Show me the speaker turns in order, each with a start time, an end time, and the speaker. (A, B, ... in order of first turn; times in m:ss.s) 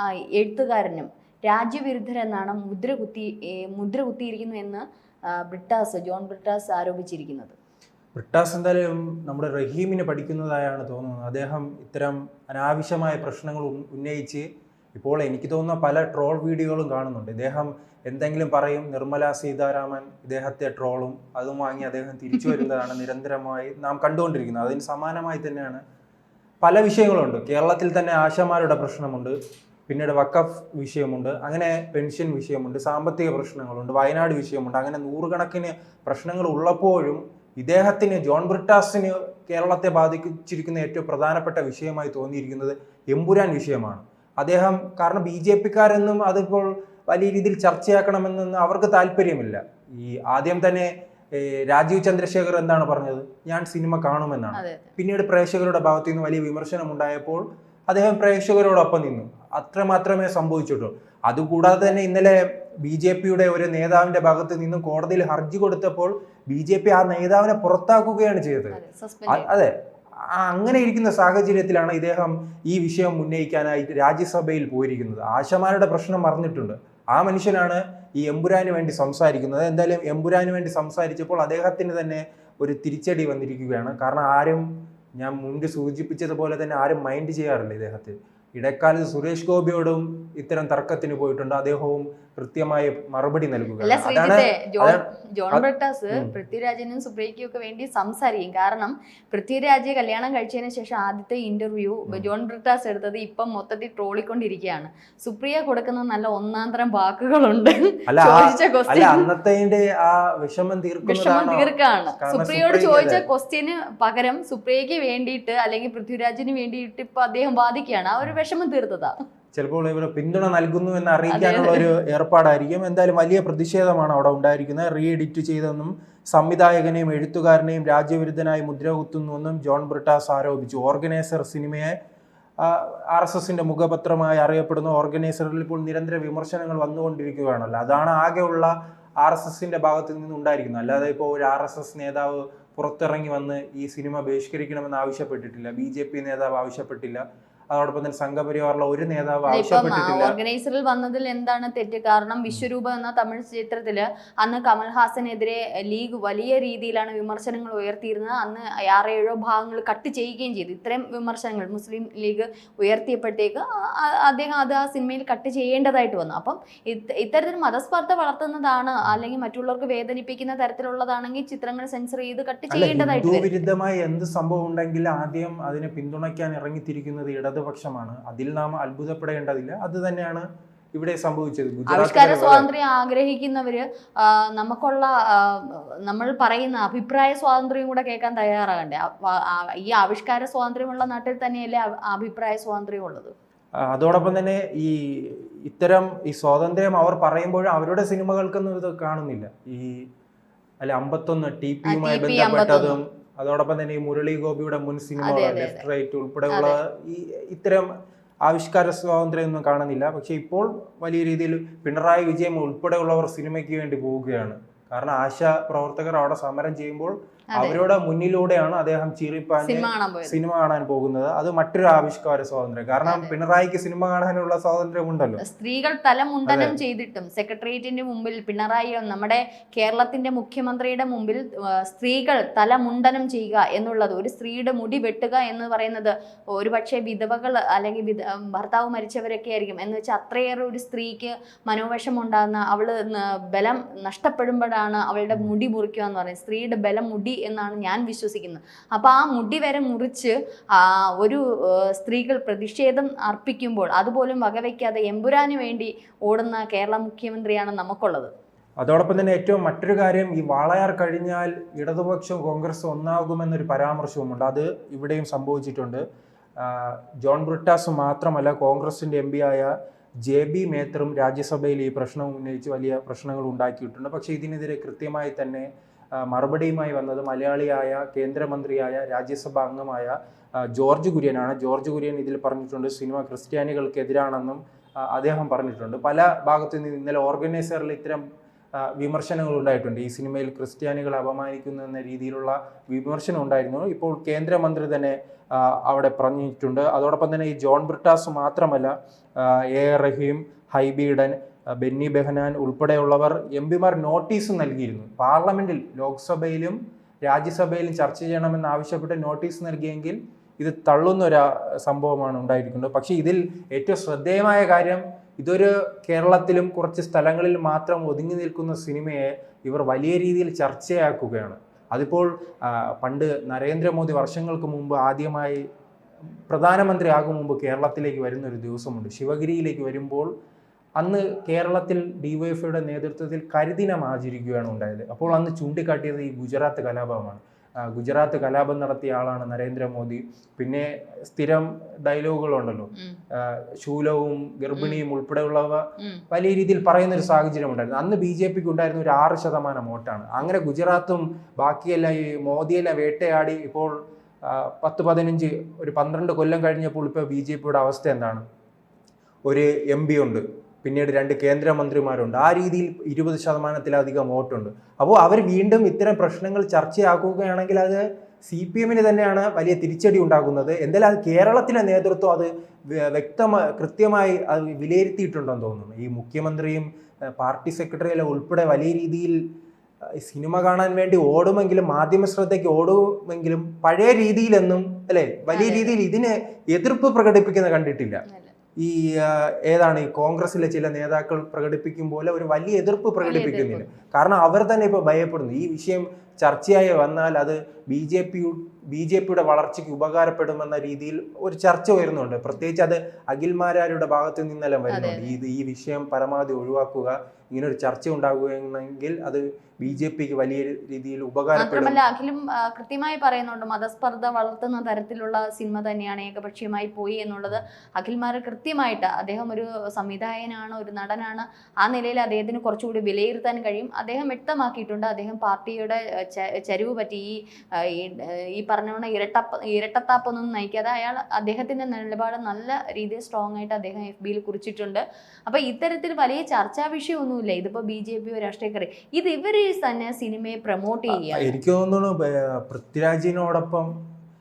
0:00.4-0:07.6 A
0:08.2-0:25.8 B
0:26.6-0:29.4 B
0:29.9-1:09.7 B
0:54.6-0:54.9 A
1:08.7-1:09.5 A
1:10.3-1:24.7 B
1:25.2-1:36.3 B
1:33.8-1:49.3 A
1:48.1-1:53.3 B
1:51.1-1:59.2 A
1:59.5-2:12.0 B
2:01.3-2:01.8 A
2:12.6-2:30.4 B
2:29.5-2:53.6 A
2:52.7-3:02.7 B
3:01.9-3:13.3 A
3:13.8-3:20.0 B
3:20.8-3:27.9 B
3:21.9-3:23.0 A
3:25.2-3:25.8 A
3:26.5-3:26.8 A
3:28.4-3:45.4 B
3:37.5-3:37.8 A
3:39.6-3:40.4 A
3:43.1-3:43.3 A
3:45.4-4:18.3 A
3:46.5-3:46.8 B
4:18.8-4:26.0 B
4:26.6-4:29.7 B
4:30.3-4:40.1 B
4:40.7-4:48.2 B
4:48.8-5:25.6 B
5:26.5-5:30.3 B
5:31.0-5:53.9 B
5:44.8-5:45.0 A
5:54.4-5:58.4 B
5:59.5-6:19.4 B
6:20.2-6:28.2 B
6:25.5-6:26.0 A
6:28.3-6:28.5 A
6:28.8-6:52.0 B
6:33.2-6:33.9 A
6:44.9-6:45.4 A
6:51.6-7:21.6 A
7:21.1-7:23.9 B